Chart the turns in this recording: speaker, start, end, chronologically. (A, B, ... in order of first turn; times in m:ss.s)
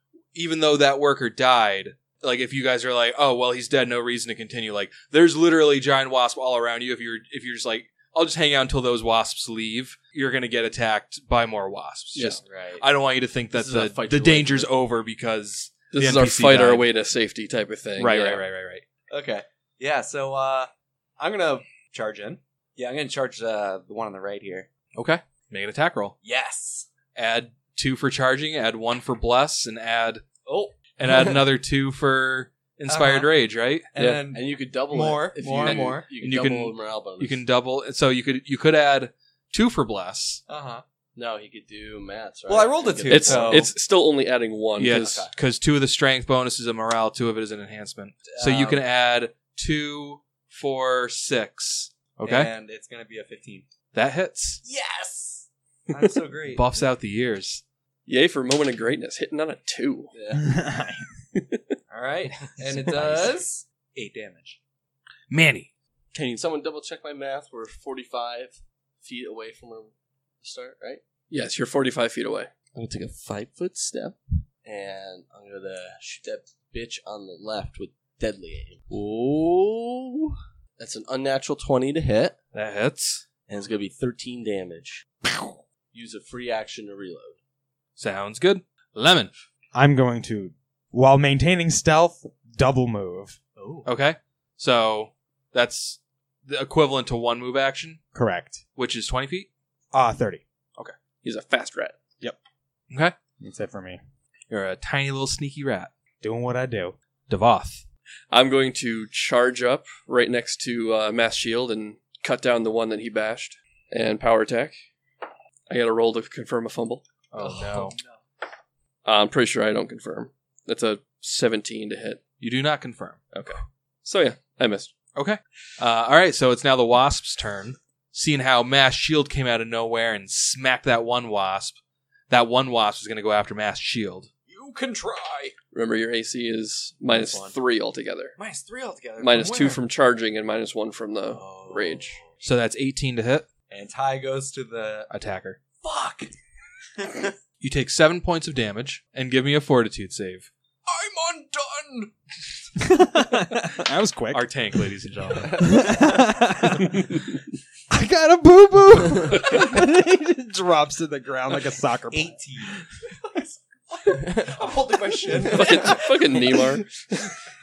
0:00.3-0:16.9 A
0:12.2-0:12.4 B
0:12.4-0:12.8 C
0:13.5-0:14.7 D
0:15.9-0:18.4 B
0:18.0-0:18.8 A
0:19.1-0:24.7 C
0:24.9-0:26.2 A
0:26.2-0:26.9 C
0:27.1-0:30.3 A
0:30.4-0:31.4 C
0:30.9-0:33.9 A
0:32.9-0:33.3 C
0:33.9-0:36.1 C
0:34.3-0:37.4 D
0:35.6-0:40.4 A
0:40.5-0:40.8 C
0:41.2-0:43.7 D
0:42.5-0:43.7 C
0:43.1-0:45.3 B
0:44.8-0:52.5 A
0:45.0-0:45.3 D
0:48.2-0:48.8 C
0:52.2-0:53.7 C
0:53.9-0:54.6 A
0:54.6-0:56.7 C
0:56.5-0:57.6 A
0:58.1-1:00.1 B
1:00.2-1:00.4 D
1:00.4-1:01.1 E
1:01.4-1:01.6 B
1:01.9-1:04.6 C
1:05.3-1:05.7 A
1:06.2-1:11.0 D
1:11.3-1:12.5 B
1:12.7-1:22.4 D
1:22.5-1:23.2 A
1:23.5-1:25.4 D
1:25.9-1:27.4 D
1:28.0-1:29.4 A
1:29.7-1:33.4 E
1:33.6-1:33.9 D
1:33.8-1:38.0 A
1:38.1-1:38.6 E
1:38.8-1:39.5 A
1:39.9-1:40.4 E
1:41.2-1:42.0 B
1:43.4-1:44.0 E
1:44.5-1:45.9 A
1:46.2-1:47.0 E
1:47.3-1:47.8 A
1:48.3-1:54.8 B
1:55.7-1:57.0 B
1:57.3-1:58.0 A
1:57.4-1:58.2 C
1:59.0-2:02.2 B
2:02.4-2:03.3 A
2:03.3-2:04.9 B
2:05.1-2:11.8 A
2:12.3-2:14.3 A
2:14.4-2:15.6 C
2:15.7-2:18.4 B
2:17.1-2:17.6 C
2:18.4-2:19.8 C
2:19.2-2:22.2 B
2:21.4-2:21.8 C
2:21.5-2:22.1 D
2:22.4-2:23.5 A
2:23.7-2:25.1 C
2:25.1-2:25.6 A
2:25.8-2:26.4 C
2:27.0-2:27.3 C
2:27.6-2:30.5 A
2:30.9-2:32.1 C
2:32.8-2:34.5 E
2:34.3-2:35.9 A
2:35.5-2:37.2 E
2:37.9-2:42.4 E
2:42.1-2:46.8 C
2:45.4-2:46.9 B